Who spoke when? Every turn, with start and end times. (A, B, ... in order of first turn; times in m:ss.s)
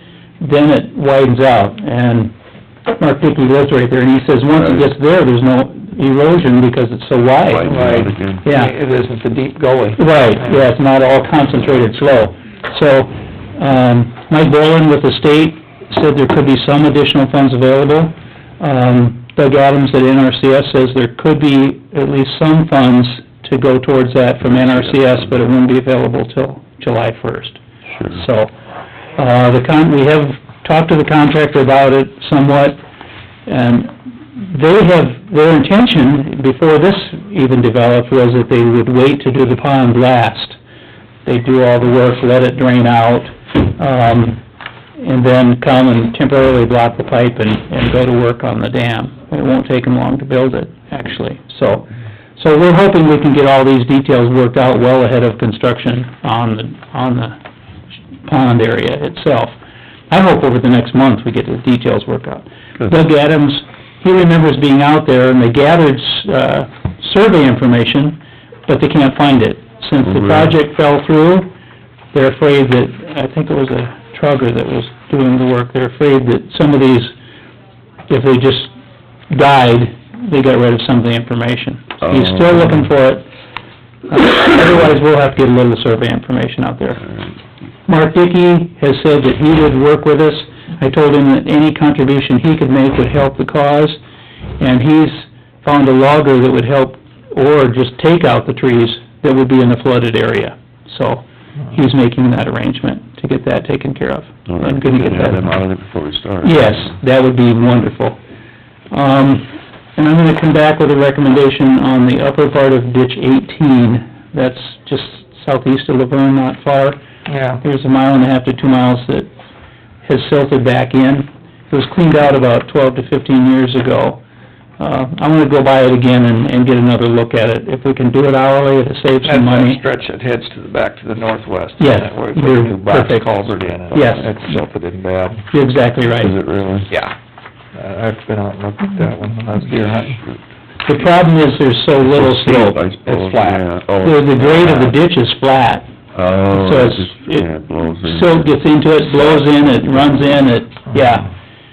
0:00.4-0:02.3 A
0:03.0-0:07.8 A
0:04.6-0:04.9 B
0:07.4-0:08.4 B
0:07.7-0:10.6 C
0:08.4-0:08.7 A
0:10.0-0:28.5 A
0:24.4-0:25.3 B
0:27.9-0:28.2 B
0:29.2-0:32.8 A
0:33.5-0:40.6 A
0:41.2-0:44.4 A
0:45.0-0:57.4 A
0:58.2-0:59.6 A
1:00.1-1:11.5 A
1:10.0-1:10.5 B
1:12.1-1:17.1 A
1:18.1-1:18.7 A
1:19.3-1:23.2 A
1:22.0-1:22.9 B
1:24.1-1:27.0 A
1:27.8-1:34.0 A
1:34.6-1:45.5 A
1:44.5-1:47.0 B
1:46.4-1:48.2 A
1:48.9-1:57.0 A
1:57.3-1:57.6 C
1:57.6-1:59.3 A
2:00.0-2:04.2 A
2:04.8-2:09.8 A
2:09.2-2:15.4 C
2:11.8-2:13.3 A
2:13.9-2:14.3 B
2:13.9-2:14.3 A
2:15.5-2:16.4 A
2:16.1-2:16.9 B
2:17.7-2:20.2 C
2:20.8-2:22.8 A
2:22.0-2:25.0 B
2:23.0-2:23.6 C
2:24.0-2:25.9 A
2:26.1-2:30.2 B
2:26.5-2:27.5 A
2:28.0-2:31.3 A